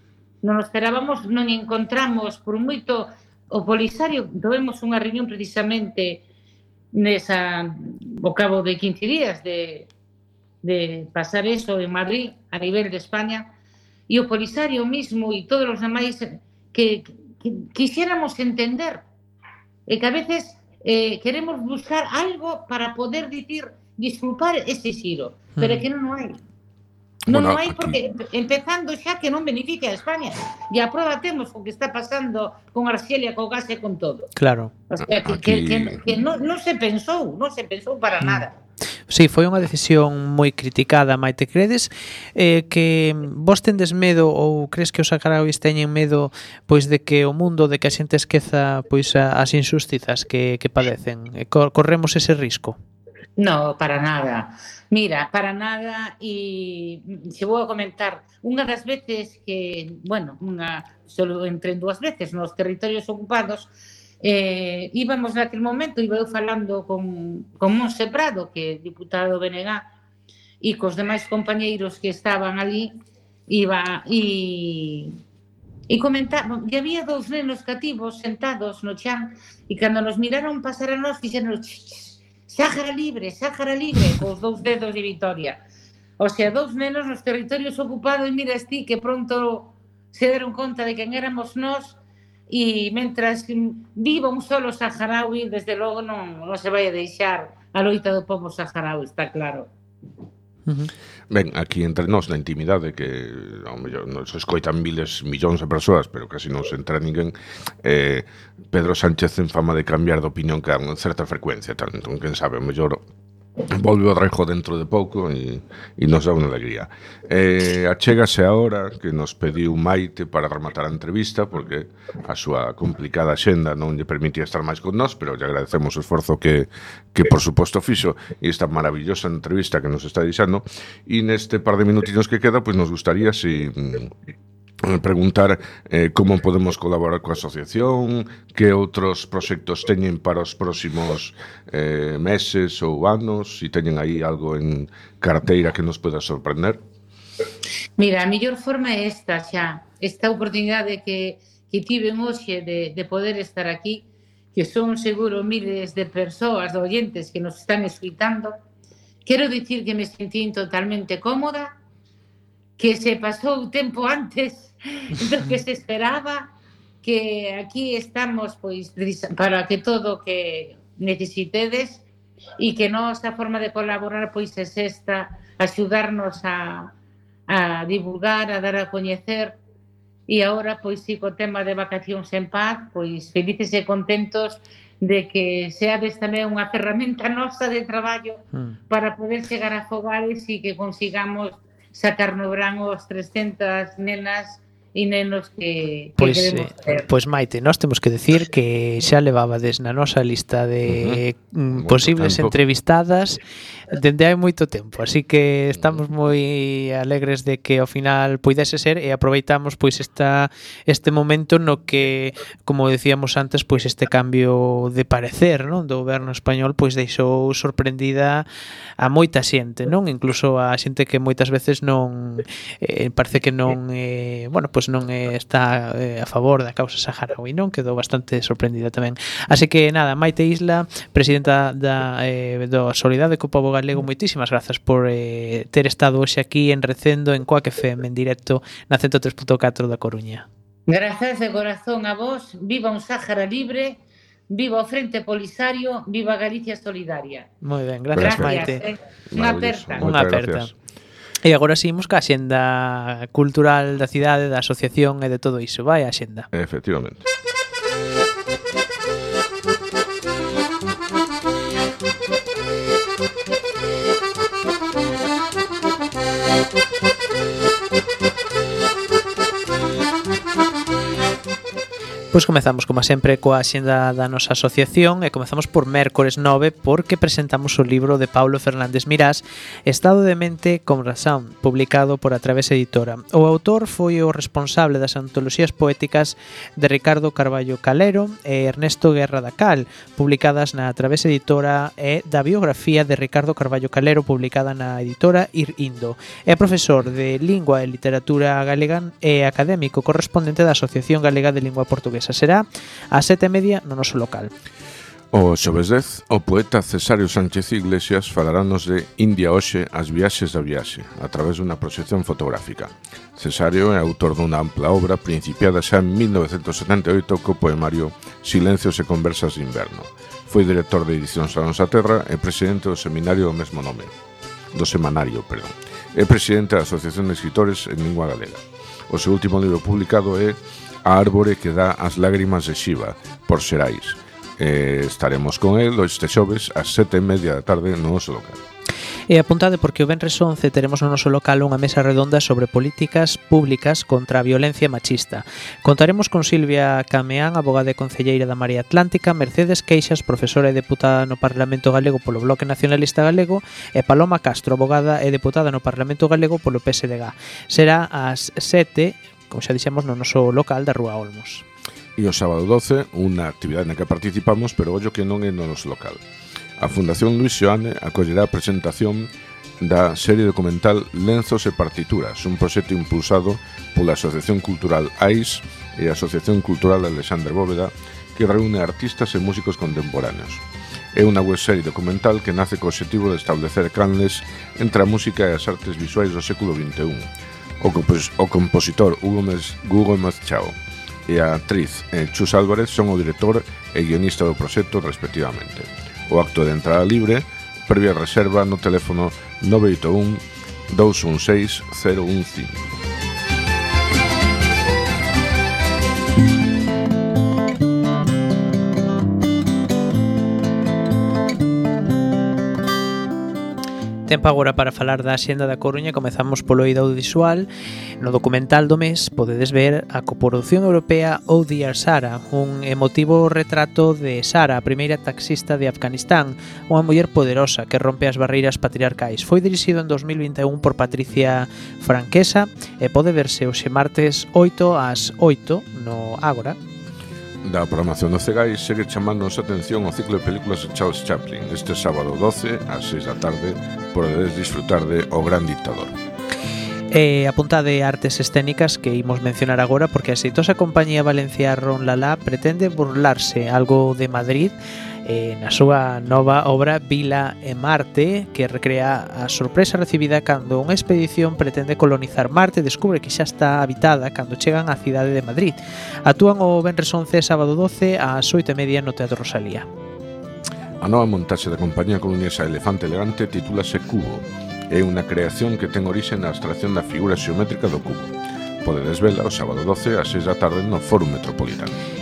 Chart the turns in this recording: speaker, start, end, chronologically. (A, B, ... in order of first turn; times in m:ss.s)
0:00.4-0:06.2 A
0:06.9-0:09.9 A
0:10.6-0:13.5 A
0:14.1-0:19.0 A
0:19.9-0:26.4 A
0:25.6-0:25.9 B
0:27.3-0:28.0 C
0:27.3-0:34.3 A
0:34.4-0:34.7 B
0:34.9-0:38.5 A
0:35.0-0:36.0 C
0:39.1-0:52.8 B
0:53.4-1:09.9 A
1:10.6-1:12.9 A
1:13.5-1:15.1 A
1:15.9-1:25.6 A
1:26.2-1:32.0 A
1:32.5-1:39.7 A
1:41.3-1:53.0 C
1:53.7-2:14.1 C
2:14.8-2:26.8 C
2:28.0-2:38.6 A
2:39.2-2:41.8 A
2:42.8-2:46.5 A
2:47.0-2:52.0 A
2:52.6-2:56.9 A
2:57.5-2:59.6 A
3:00.3-3:17.1 A
3:16.2-3:23.4 B
3:20.9-3:22.6 C
3:23.9-3:38.4 B
3:25.7-3:26.0 C
3:39.0-4:00.4 B
4:00.9-4:07.5 A
4:07.6-4:08.8 B
4:08.1-4:08.6 C
4:08.2-4:10.1 A
4:09.3-4:10.7 C
4:10.0-4:10.7 B
4:11.4-4:16.5 B
4:16.5-4:17.2 C
4:32.3-5:04.5 B
5:05.3-5:24.1 C
5:24.7-5:38.6 C
5:39.3-6:01.6 B
6:02.2-6:06.2 C
6:06.8-6:20.6 C
6:21.1-6:27.3 C
6:27.8-6:30.7 C
6:31.3-6:42.9 C
6:54.3-6:57.7 B
6:58.2-7:16.8 B
7:17.6-7:26.1 C
7:27.1-7:49.9 B
7:51.0-8:02.0 C